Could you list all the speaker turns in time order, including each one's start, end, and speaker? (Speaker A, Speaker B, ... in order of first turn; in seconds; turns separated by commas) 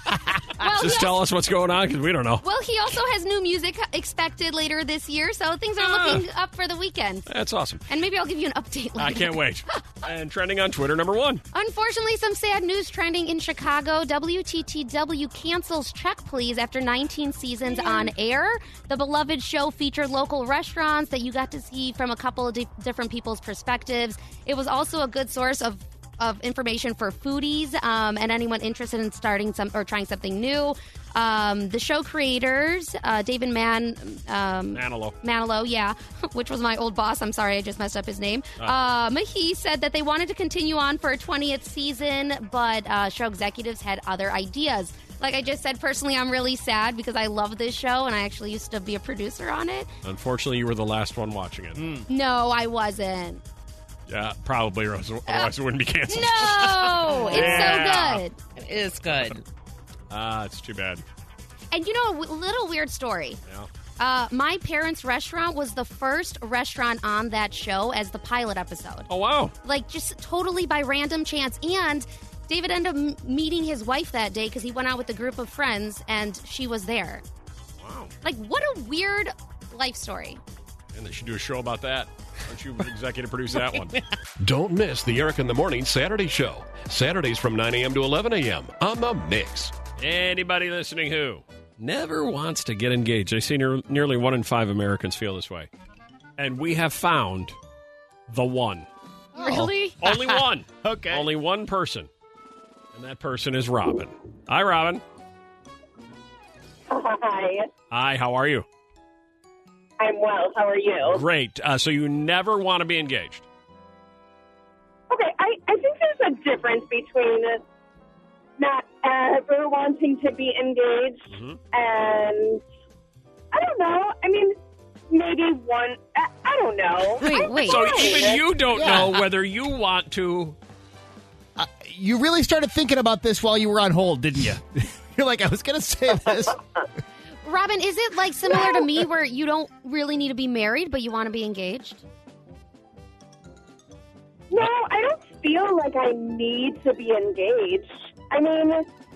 Speaker A: 0.6-1.2, Speaker B: 0.6-2.4, Speaker A: 2.4-7.3, Speaker B: 5.8-6.2, Speaker B: 7.3-7.8, Speaker A: 7.9-9.4, Speaker B: 9.0-11.4, Speaker A: 11.5-49.9, Speaker B: 34.7-35.1, Speaker B: 50.0-51.8, Speaker C: 51.8-52.1, Speaker A: 52.1-53.4, Speaker B: 54.1-58.2, Speaker A: 56.1-58.4, Speaker D: 57.1-57.9, Speaker D: 58.6-59.4, Speaker B: 60.1-61.0, Speaker A: 61.7-63.4, Speaker A: 64.0-69.1, Speaker B: 69.1-69.5, Speaker A: 69.6-77.2, Speaker B: 77.8-78.1, Speaker A: 78.2-80.4, Speaker B: 80.9-84.0, Speaker D: 83.5-84.1, Speaker E: 84.4-89.7, Speaker B: 90.0-95.7, Speaker B: 96.4-97.5, Speaker B: 98.3-98.9, Speaker C: 99.4-99.7, Speaker A: 99.4-100.0, Speaker D: 99.4-100.4, Speaker B: 100.0-102.1, Speaker C: 100.8-101.3, Speaker B: 103.0-105.0, Speaker F: 106.9-107.7, Speaker B: 107.9-108.7, Speaker F: 110.0-111.3, Speaker B: 111.1-113.5, Speaker F: 115.1-117.6, Speaker F: 118.6-122.6, Speaker B: 121.3-121.6, Speaker F: 123.5-124.5, Speaker F: 125.1-128.6, Speaker A: 127.2-128.3, Speaker B: 127.7-130.6, Speaker C: 128.7-129.2, Speaker C: 131.6-136.6, Speaker A: 137.4-142.0, Speaker F: 144.5-148.9